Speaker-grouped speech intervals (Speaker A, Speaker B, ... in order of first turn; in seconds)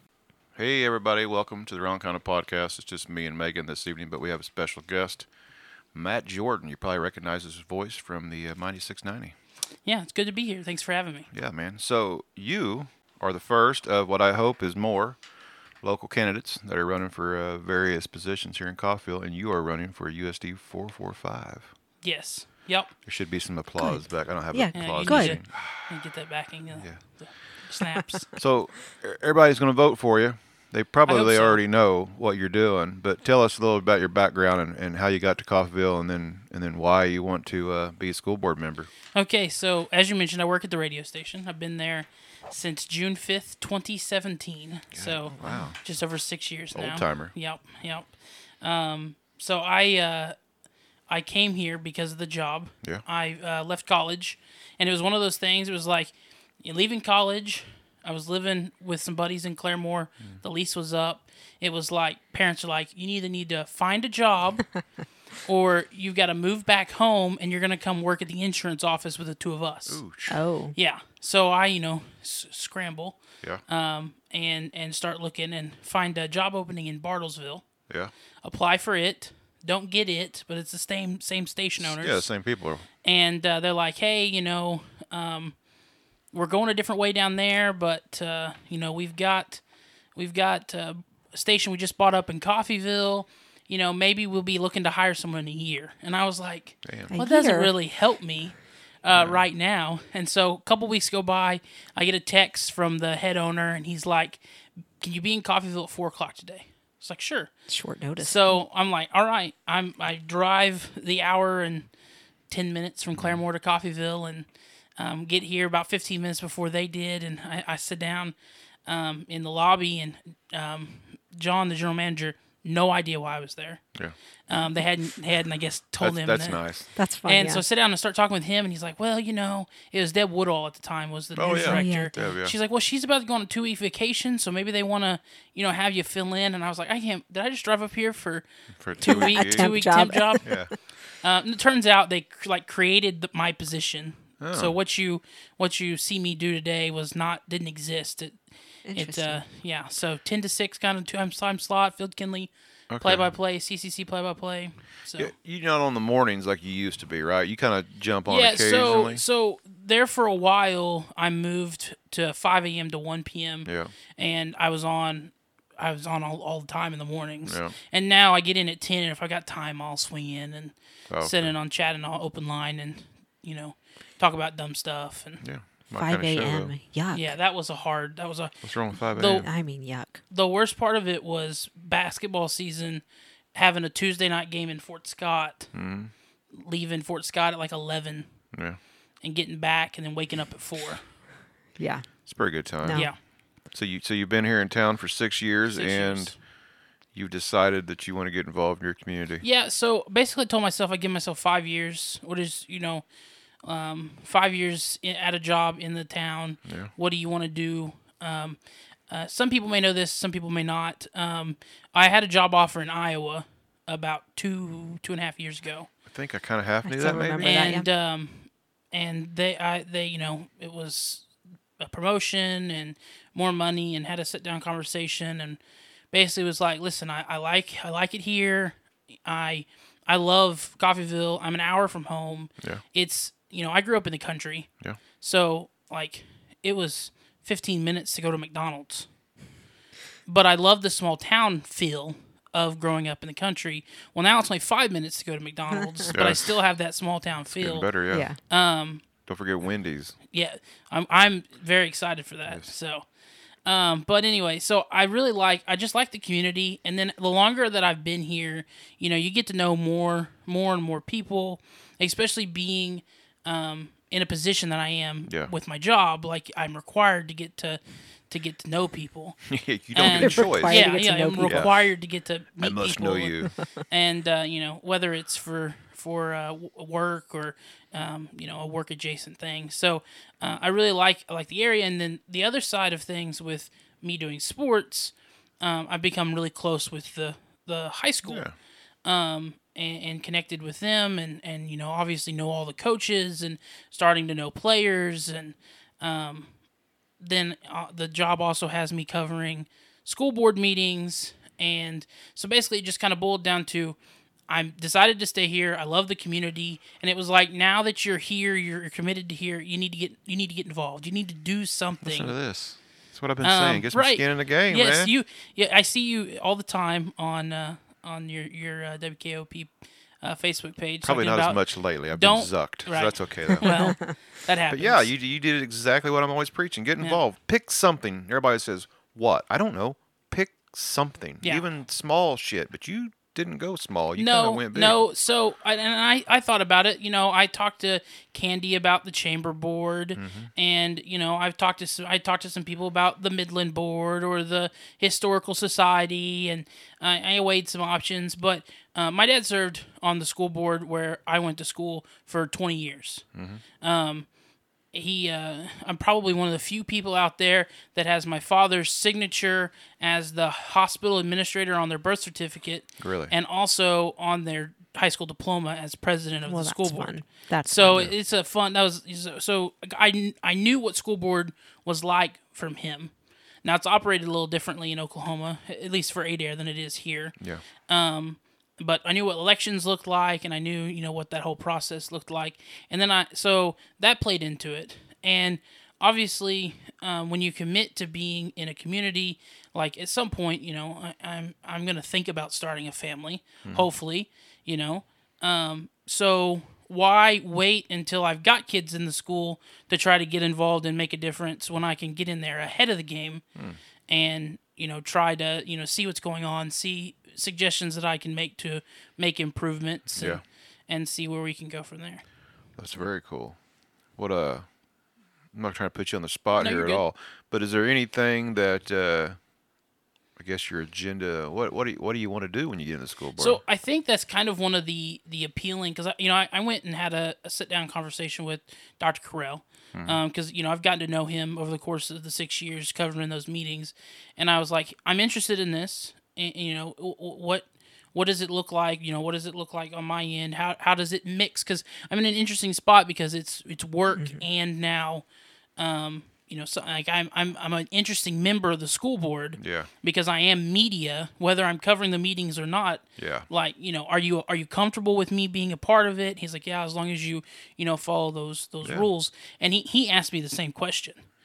Speaker A: 0.6-5.3, 5.9-9.3, 11.3-15.2, 15.8-21.7, 23.1-25.9, 28.4-38.9, 44.9-45.8, 46.7-47.3, 69.9-70.4, 81.8-82.8, 96.8-97.1, 99.1-99.4, 126.0-126.9, 131.3-132.5, 138.8-139.7, 140.4-140.7, 144.4-144.7, 152.9-153.3, 155.2-159.2, 163.7-163.9, 167.4-167.7, 171.1-171.5, 175.4-176.7, 178.6-179.5, 185.7-186.1, 188.5-188.8, 192.3-193.1, 193.7-196.3, 197.1-199.4, 206.6-206.9, 216.1-217.6, 246.1-246.4, 247.5-248.3, 249.3-250.2, 265.3-265.5, 269.4-270.9, 271.5-271.7, 272.6-273.5, 288.2-288.5, 312.0-315.1, 321.0-323.7, 324.7-335.0, 340.2-340.5, 353.3-353.6, 363.0-363.3, 367.9-368.1, 410.1-410.4, 412.8-413.6, 414.2-414.6, 415.5-419.4, 420.4-423.6, 429.9-430.2, 449.6-449.9, 453.2-453.5
Speaker B: 9.8-11.3, 22.0-22.9, 24.7-28.3, 31.1-31.6, 39.1-50.4, 51.1-64.7, 65.4-70.0, 70.7-73.2, 73.7-77.6, 78.4-82.3, 83.0-85.5, 86.3-89.6, 90.1-104.4, 105.0-107.5, 108.2-111.9, 112.5-118.3, 118.9-123.8, 124.5-126.6, 127.2-138.4, 139.0-140.6, 141.2-148.4, 148.9-155.3, 158.3-175.4, 177.1-179.5, 180.3-183.0, 183.5-185.7, 186.5-188.3, 189.2-191.0, 192.9-193.2, 195.7-196.3, 199.4-203.1, 203.6-215.9, 217.4-221.2, 221.8-225.6, 226.1-239.1, 240.2-247.9, 248.5-249.0, 250.3-253.1, 253.7-269.4, 269.9-288.4, 289.0-296.5, 297.2-304.0, 304.5-312.3, 313.4-321.6, 322.1-325.1, 334.1-353.2, 353.8-354.3, 354.9-373.1, 373.6-377.3, 377.9-403.4, 404.1-412.2, 416.6-417.0, 423.4-445.2, 445.8-461.2
Speaker C: 23.8-25.4, 45.4-45.7, 70.3-70.7, 97.1-97.7, 107.7-108.6, 127.0-127.6, 131.5-132.1, 139.0-140.6, 148.8-149.4, 175.9-177.3, 179.4-180.2, 191.8-192.1, 192.8-193.1, 216.8-217.9, 248.1-248.4, 270.1-271.7, 323.6-324.1, 366.5-368.1, 444.2-444.4